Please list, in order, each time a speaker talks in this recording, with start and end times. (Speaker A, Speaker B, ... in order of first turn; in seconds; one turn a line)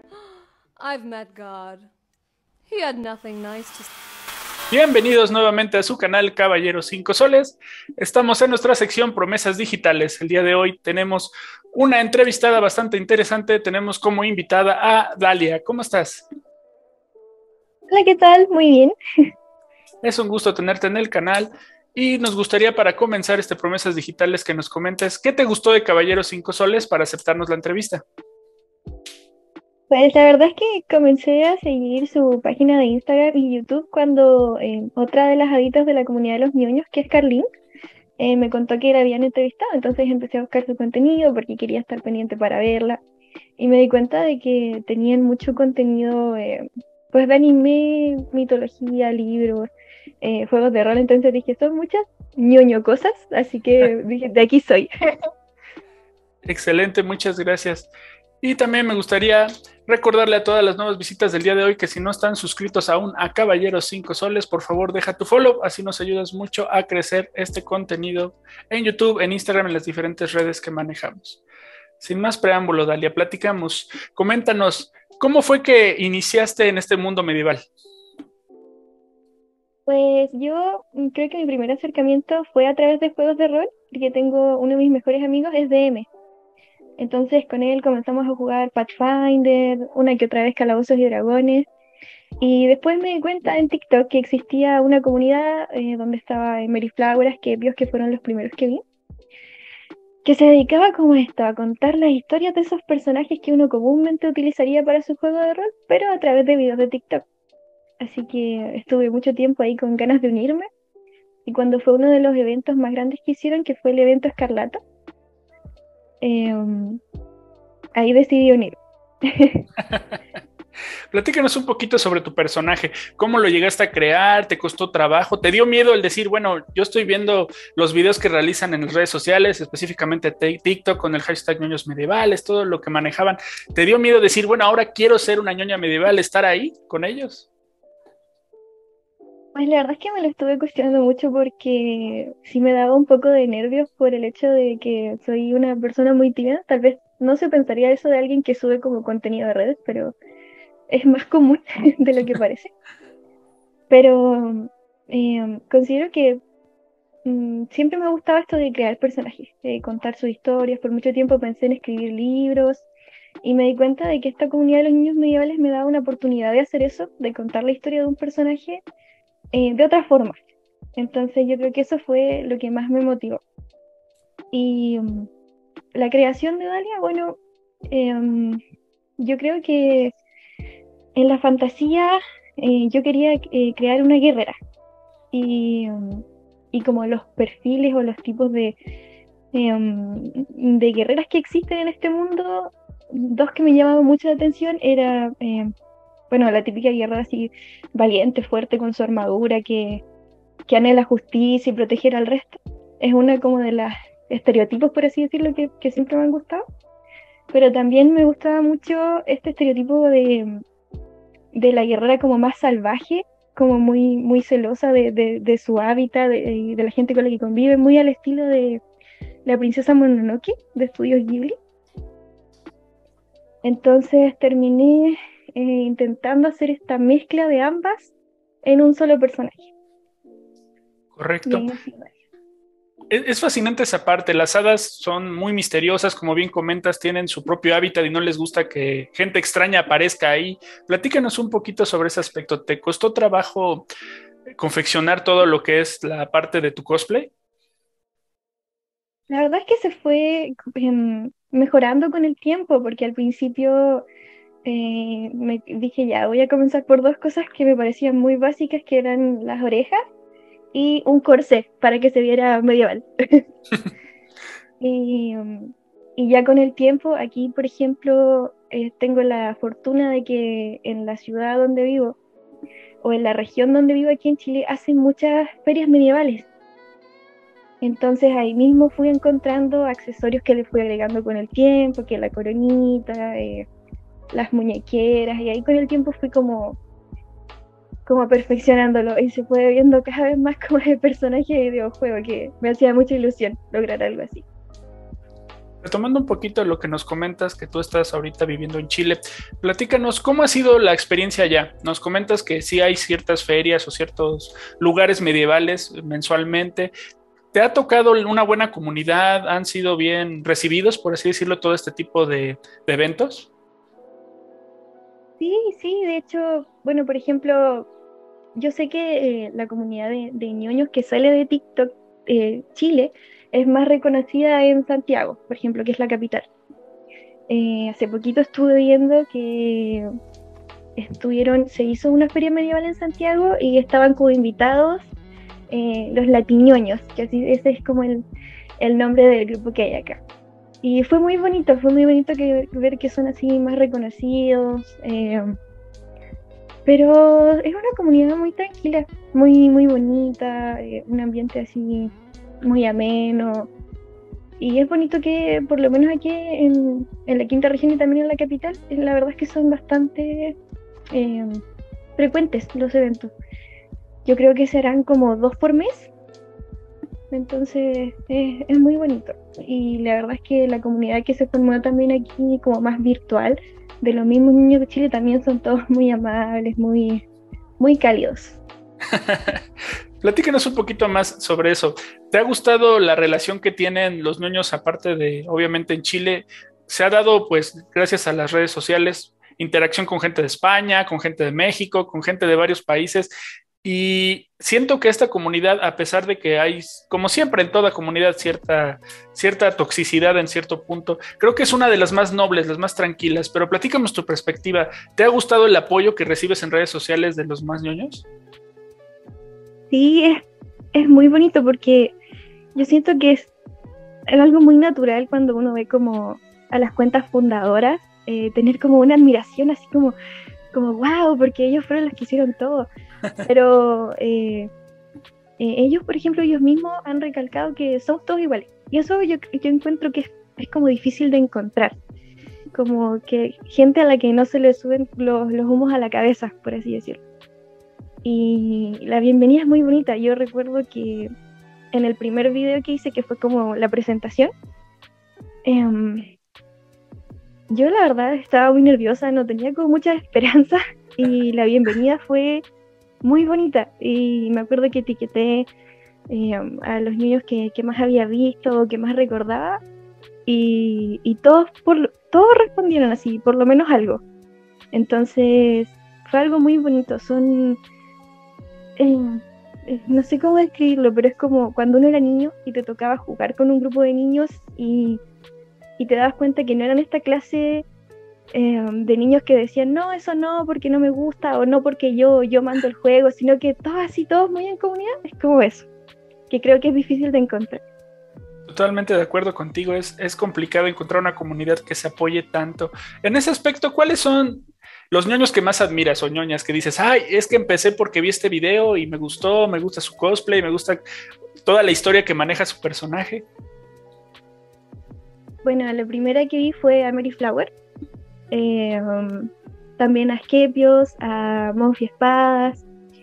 Speaker A: 0.8-1.9
Speaker A: 2.7-3.9
Speaker B: 4.7-16.3
Speaker C: 17.9-18.9
Speaker B: 20.0-28.0
Speaker C: 29.9-37.5
Speaker C: 38.2-43.0
Speaker C: 43.6-49.7
Speaker C: 50.2-54.9
Speaker B: 56.5-57.9
Speaker B: 58.4-71.4
Speaker B: 72.0-77.7
Speaker C: 79.9-86.1
Speaker C: 87.0-91.7
Speaker C: 92.4-98.8
Speaker C: 100.2-107.2
Speaker C: 108.0-110.7
Speaker C: 111.5-114.8
Speaker C: 116.2-117.0
Speaker C: 118.0-119.7
Speaker B: 119.8-120.2
Speaker B: 121.1-137.5
Speaker C: 139.5-150.2
Speaker C: 150.9-152.7
Speaker C: 153.9-156.4
Speaker C: 157.2-162.9
Speaker C: 163.4-168.8
Speaker C: 169.5-170.4
Speaker C: 171.0-173.4
Speaker C: 174.5-175.3
Speaker C: 175.9-177.4
Speaker C: 177.9-178.6
Speaker C: 179.2-180.2
Speaker C: 181.2-184.6
Speaker C: 185.3-188.8
Speaker C: 189.5-195.7
Speaker C: 196.3-200.0
Speaker C: 200.7-206.6
Speaker C: 207.5-210.6
Speaker C: 211.5-218.8
Speaker C: 219.4-221.6
Speaker C: 223.6-228.1
Speaker C: 228.6-229.7
Speaker B: 231.2-231.7
Speaker C: 231.5-232.1
Speaker B: 233.1-243.9
Speaker B: 244.6-247.3
Speaker C: 249.3-254.1
Speaker C: 254.7-260.0
Speaker C: 260.7-263.4
Speaker C: 264.8-272.2
Speaker C: 273.0-276.5
Speaker C: 277.8-283.7
Speaker C: 284.3-286.8
Speaker C: 288.1-294.5
Speaker B: 295.8-306.9
Speaker B: 307.5-313.5
Speaker C: 315.4-317.9
Speaker C: 318.6-326.5
Speaker C: 327.5-330.1
Speaker C: 331.0-335.1
Speaker C: 335.7-338.3
Speaker C: 338.8-340.2
Speaker C: 340.8-345.6
Speaker C: 346.9-353.7
Speaker C: 354.6-360.6
Speaker C: 361.1-361.6
Speaker C: 362.2-363.3
Speaker C: 364.2-366.1
Speaker C: 367.3-377.2
Speaker C: 377.8-378.6
Speaker B: 379.1-379.6
Speaker B: 380.2-393.3
Speaker B: 393.8-408.2
Speaker C: 409.9-410.4
Speaker C: 410.9-412.1
Speaker C: 412.8-413.5
Speaker C: 414.3-420.1
Speaker C: 420.7-422.9
Speaker C: 423.4-424.7
Speaker C: 425.6-432.0
Speaker C: 432.7-437.2
Speaker C: 438.2-441.3
Speaker C: 441.9-444.5
Speaker C: 445.6-446.3
Speaker C: 447.7-452.6
Speaker C: 453.2-455.7
Speaker C: 456.3-459.8
Speaker C: 460.5-464.2
Speaker C: 464.9-467.8
Speaker C: 469.0-475.2
Speaker C: 476.0-477.9
Speaker C: 478.5-485.9
Speaker C: 486.5-487.8
Speaker B: 488.7-501.0
Speaker B: 501.6-503.5
Speaker C: 505.6-507.7
Speaker C: 508.5-512.9